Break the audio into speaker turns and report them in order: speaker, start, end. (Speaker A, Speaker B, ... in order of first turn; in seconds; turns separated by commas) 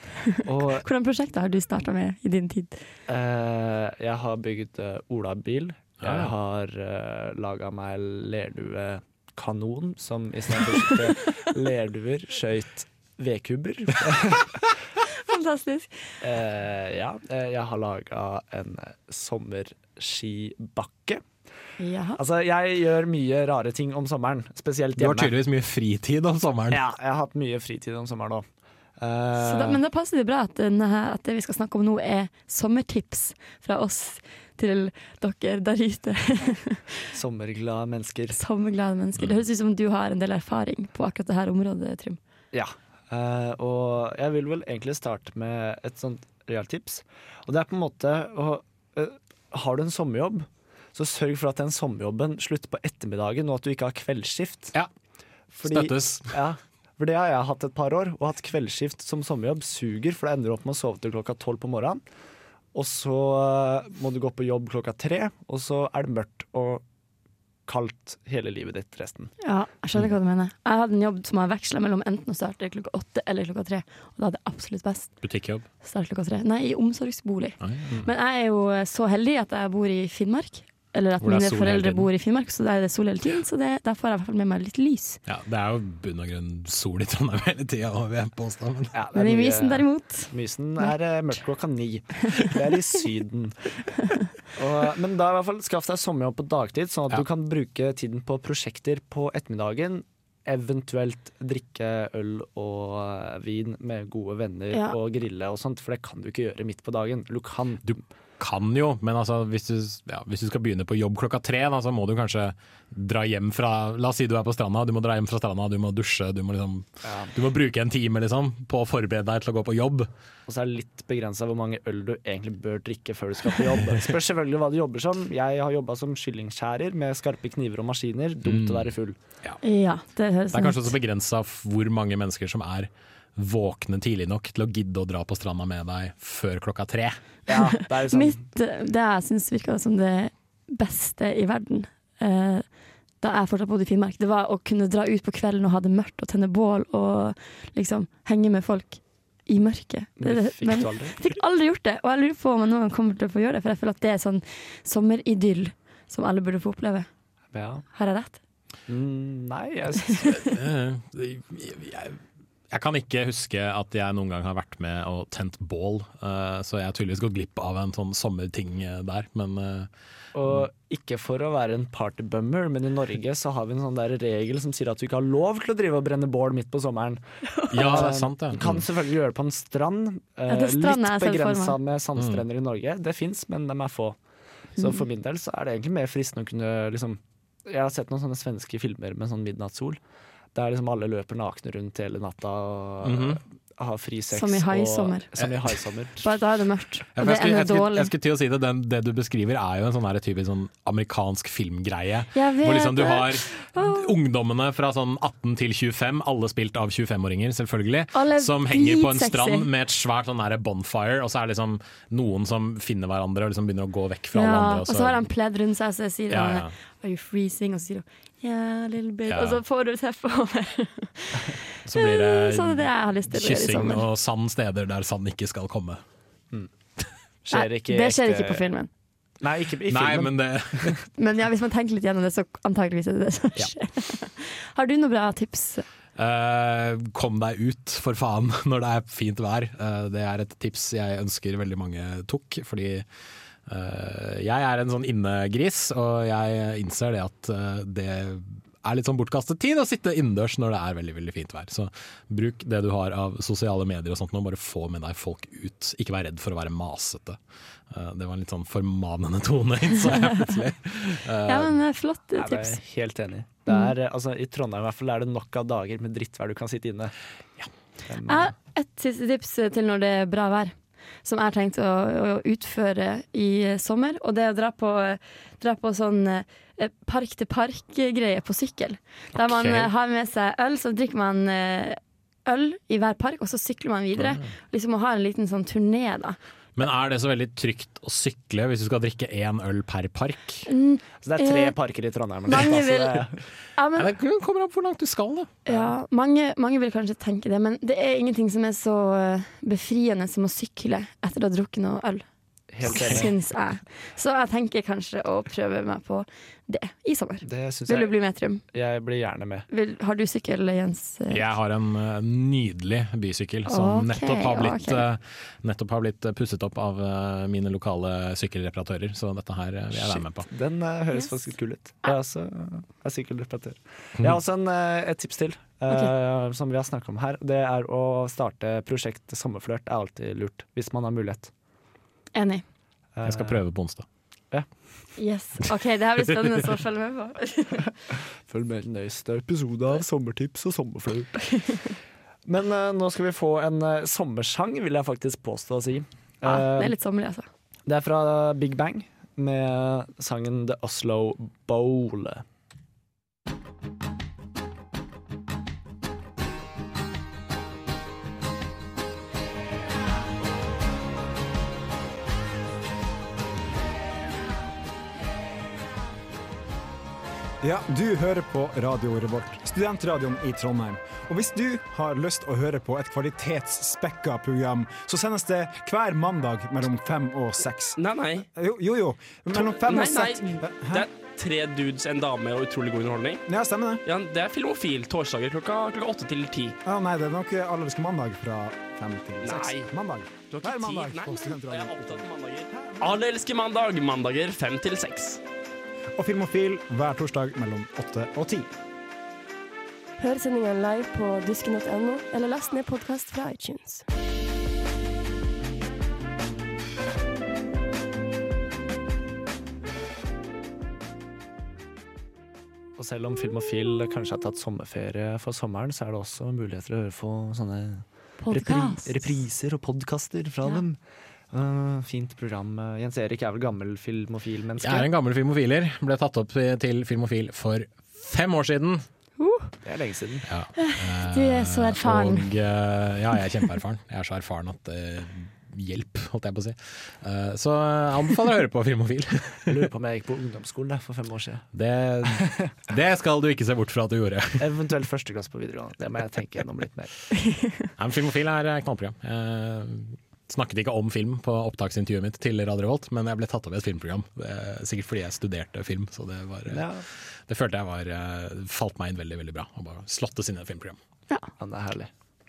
Speaker A: 0.4-0.8, Speaker B: 0.6-2.8, Speaker A: 3.1-14.6, Speaker C: 6.0-6.3, Speaker B: 15.1-16.2, Speaker A: 16.2-21.2, Speaker B: 21.8-22.2, Speaker A: 22.2-25.4, Speaker C: 25.0-26.8, Speaker A: 26.7-28.5, Speaker A: 29.0-29.8, Speaker B: 29.4-37.0, Speaker A: 37.1-38.4, Speaker B: 38.3-42.2, Speaker A: 42.5-54.8, Speaker A: 55.5-62.0, Speaker C: 55.6-56.3, Speaker A: 62.7-66.8, Speaker A: 67.7-69.3, Speaker B: 69.4-75.2, Speaker C: 75.2-75.7, Speaker B: 75.8-85.2, Speaker C: 77.6-78.0, Speaker C: 81.2-82.1, Speaker C: 85.3-89.0, Speaker A: 88.9-93.6, Speaker B: 89.2-90.9, Speaker A: 94.5-108.0, Speaker C: 107.9-120.1, Speaker A: 117.0-117.3, Speaker A: 120.5-129.2, Speaker C: 128.4-128.9, Speaker B: 129.6-130.9, Speaker C: 130.5-137.2, Speaker A: 137.5-138.4, Speaker B: 137.5-142.7, Speaker B: 143.2-157.1, Speaker A: 150.2-151.2, Speaker A: 157.5-157.8, Speaker B: 157.9-158.4, Speaker A: 158.9-160.3, Speaker C: 160.3-162.2, Speaker C: 162.7-169.9, Speaker A: 170.3-184.2, Speaker C: 177.7-178.8, Speaker B: 180.5-181.8, Speaker C: 182.2-182.4, Speaker A: 184.8-190.0, Speaker A: 190.5-196.3, Speaker C: 193.0-193.4, Speaker B: 194.3-195.3, Speaker B: 196.2-198.1, Speaker C: 197.2-215.2, Speaker B: 202.3-204.1, Speaker B: 208.1-209.7, Speaker B: 214.3-224.1, Speaker C: 216.3-216.7, Speaker C: 219.3-219.6, Speaker C: 221.9-226.0, Speaker A: 227.4-228.6, Speaker B: 227.5-228.9, Speaker A: 229.4-231.0, Speaker C: 229.9-231.0, Speaker B: 231.2-235.8, Speaker C: 236.2-243.1, Speaker C: 243.7-257.4, Speaker C: 257.9-261.8, Speaker B: 261.5-262.8, Speaker A: 262.4-267.1, Speaker A: 268.1-268.5, Speaker B: 268.2-286.4, Speaker C: 279.4-279.9, Speaker C: 284.2-284.5, Speaker C: 286.8-290.7, Speaker B: 290.7-291.8, Speaker A: 291.2-293.4, Speaker B: 292.5-293.2, Speaker B: 293.8-294.1, Speaker C: 294.0-295.5, Speaker B: 295.6-302.2, Speaker A: 302.7-303.3, Speaker B: 302.8-308.6, Speaker A: 307.4-308.1, Speaker A: 308.7-309.7, Speaker B: 309.7-311.4, Speaker C: 311.3-320.5, Speaker B: 313.7-315.0, Speaker A: 319.9-331.5, Speaker B: 332.4-332.6, Speaker A: 333.1-333.7, Speaker C: 333.2-334.1, Speaker B: 335.2-337.9, Speaker A: 338.1-341.3, Speaker B: 341.4-341.9, Speaker A: 342.5-346.9, Speaker B: 346.4-347.5, Speaker A: 347.9-352.4, Speaker D: 367.6-378.0, Speaker E: 378.0-378.5, Speaker D: 378.5-381.1, Speaker E: 379.5-383.4, Speaker D: 383.5-384.0, Speaker E: 384.1-386.8, Speaker D: 386.9-393.1, Speaker E: 389.4-395.4, Speaker D: 396.2-398.7, Speaker F: 400.2-404.0, Speaker A: 413.0-421.0, Speaker B: 418.4-419.3, Speaker A: 421.5-425.1, Speaker C: 424.8-429.1, Speaker B: 429.4-429.7, Speaker A: 429.8-430.5, Speaker C: 430.5-439.8, Speaker B: 430.8-432.5, Speaker A: 439.7-441.7, Speaker C: 441.7-444.6, Speaker A: 442.3-442.6, Speaker A: 444.6-447.1, Speaker B: 447.4-447.9, Speaker C: 448.0-456.9, Speaker A: 456.7-457.1, Speaker C: 457.5-461.0, Speaker A: 461.6-462.1